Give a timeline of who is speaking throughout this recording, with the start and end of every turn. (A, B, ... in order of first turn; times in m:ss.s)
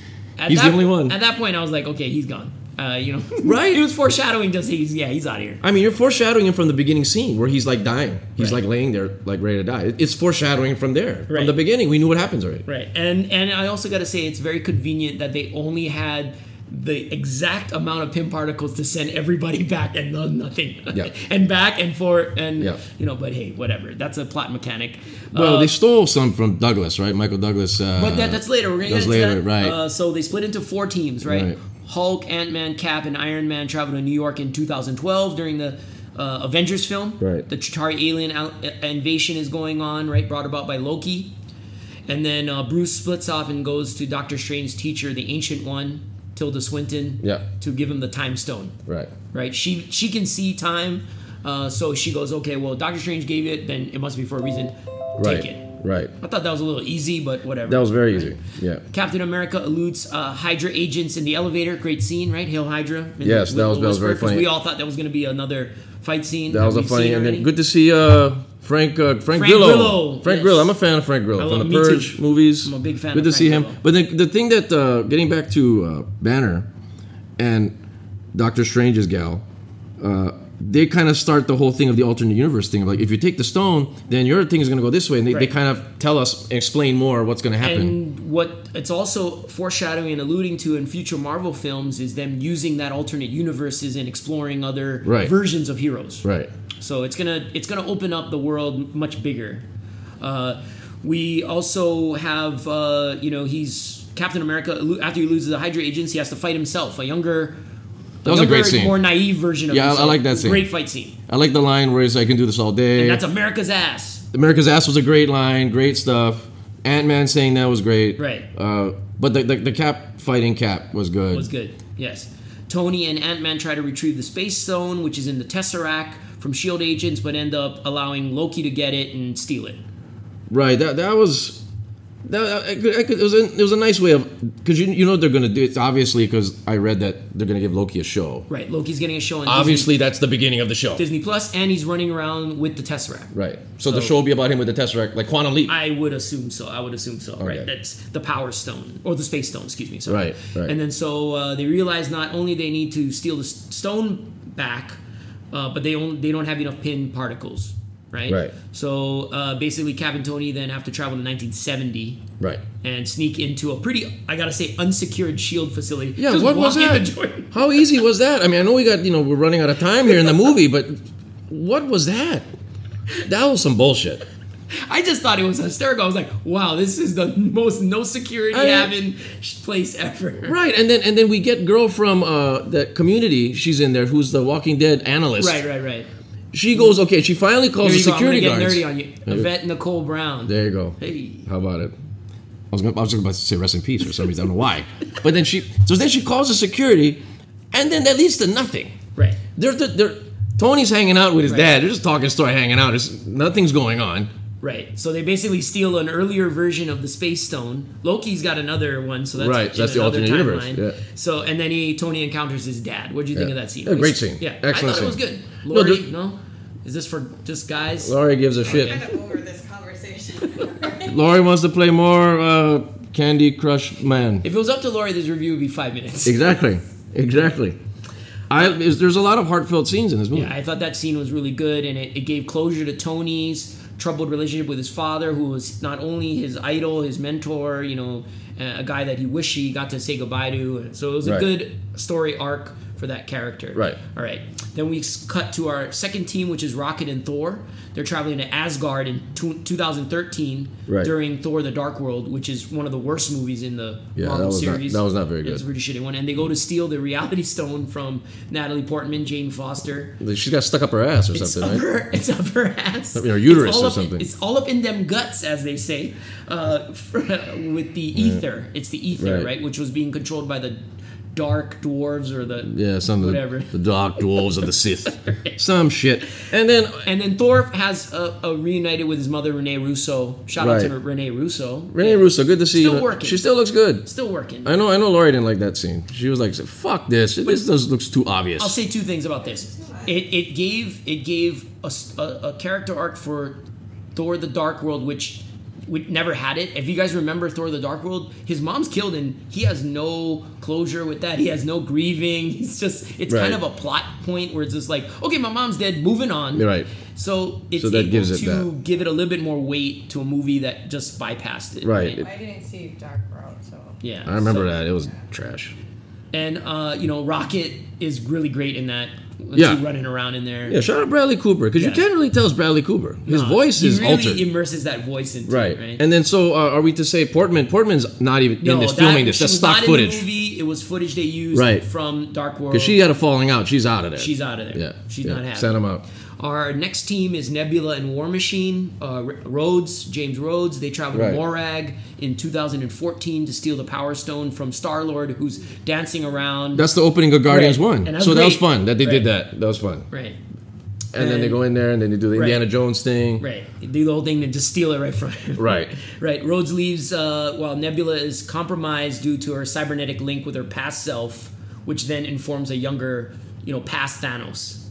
0:00.4-0:05.6 A
0:00.5-0:01.2 B
0:03.4-0:03.8 B
0:05.6-0:12.6 B
0:11.3-0:11.6 A
0:12.6-0:25.7 A
0:25.3-0:29.8 B
0:28.0-0:41.3 A
0:31.2-0:31.6 B
0:37.2-0:37.4 B
0:42.1-0:48.8 A
0:48.9-0:49.1 B
0:49.3-0:58.3 A
0:55.2-0:56.1 B
0:57.6-0:58.8 B
0:58.9-1:07.5 A
1:03.2-1:04.5 B
1:06.5-1:16.6 B
1:09.3-1:10.7 A
1:11.4-1:13.8 A
1:17.4-1:17.7 B
1:18.3-1:19.4 B
1:20.0-1:28.0 B
1:25.3-1:25.5 A
1:27.6-1:36.2 A
1:35.0-1:35.3 B
1:36.2-1:36.5 B
1:36.8-1:39.6 A
1:40.2-1:47.6 A
1:48.2-1:51.2 A
1:48.2-1:49.0 B
1:49.7-1:50.6 B
1:51.3-1:53.2 B
1:52.9-1:54.2 A
1:54.3-2:01.5 B
1:58.2-1:58.4 A
2:01.3-2:09.8 A
2:10.5-2:11.6 B
2:12.2-2:18.5 B
2:18.5-2:19.9 A
2:19.4-2:21.0 B
2:21.0-2:23.3 A
2:23.3-2:25.7 B
2:23.8-2:24.2 A
2:25.7-2:35.0 A
2:27.4-2:27.7 B
2:30.1-2:30.7 B
2:35.5-2:42.2 A
2:38.3-2:38.5 B
2:42.8-2:47.5 A
2:46.2-2:52.4 B
2:53.2-2:54.2 B
2:54.7-3:00.6 A
2:58.5-2:58.9 B
3:00.4-3:05.6 B
3:05.4-3:06.1 A
3:06.5-3:09.5 B
3:07.8-3:11.5 A
3:10.4-3:11.9 B
3:12.7-3:17.2 B
3:17.7-3:19.0 B
3:19.6-3:24.3 B
3:21.4-3:21.7 A
3:24.6-3:39.1 A
3:29.4-3:31.0 B
3:33.3-3:36.0 B
3:38.0-3:39.0 B
3:38.6-3:41.2 C
3:41.0-3:44.4 B
3:44.4-3:46.5 A
3:46.2-3:47.8 B
3:48.5-3:50.5 B
3:50.3-4:20.2 A
4:01.2-4:01.5 B
4:10.9-4:11.1 B
4:14.2-4:15.6 B
4:20.2-4:21.8 B
4:21.3-4:30.8 A
4:23.1-4:24.3 B
4:28.1-4:28.4 B
4:29.2-4:29.5 B
4:31.3-4:33.7 A
4:32.6-4:37.1 B
4:35.1-4:35.5 A
4:37.0-4:43.4 A
4:40.6-4:40.9 B
4:41.9-4:44.0 B
4:44.0-4:44.7 A
4:44.6-4:48.8 B
4:48.6-4:53.6 A
4:49.6-4:50.1 C
4:54.1-5:12.2 A
5:03.3-5:03.6 B
5:06.5-5:06.9 B
5:07.8-5:08.7 B
5:11.8-5:12.2 B
5:12.1-5:14.0 C
5:14.0-5:14.8 A
5:14.2-5:15.7 B
5:16.3-5:20.8 A
5:19.5-5:19.8 B
5:20.7-5:24.4 B
5:21.8-5:22.0 A
5:23.3-5:26.0 A
5:25.4-5:30.2 B
5:28.6-5:33.0 A
5:31.5-5:31.8 B
5:32.7-5:36.0 B
5:34.2-5:35.7 A
5:36.4-5:46.9 A
5:41.1-5:41.4 B
5:46.7-5:50.1 B
5:47.4-5:49.3 A
5:50.1-5:50.4 A
5:51.1-5:53.4 B
5:51.2-5:51.6 A
5:52.3-5:52.6 A
5:53.4-6:04.8 A
5:55.6-5:55.9 B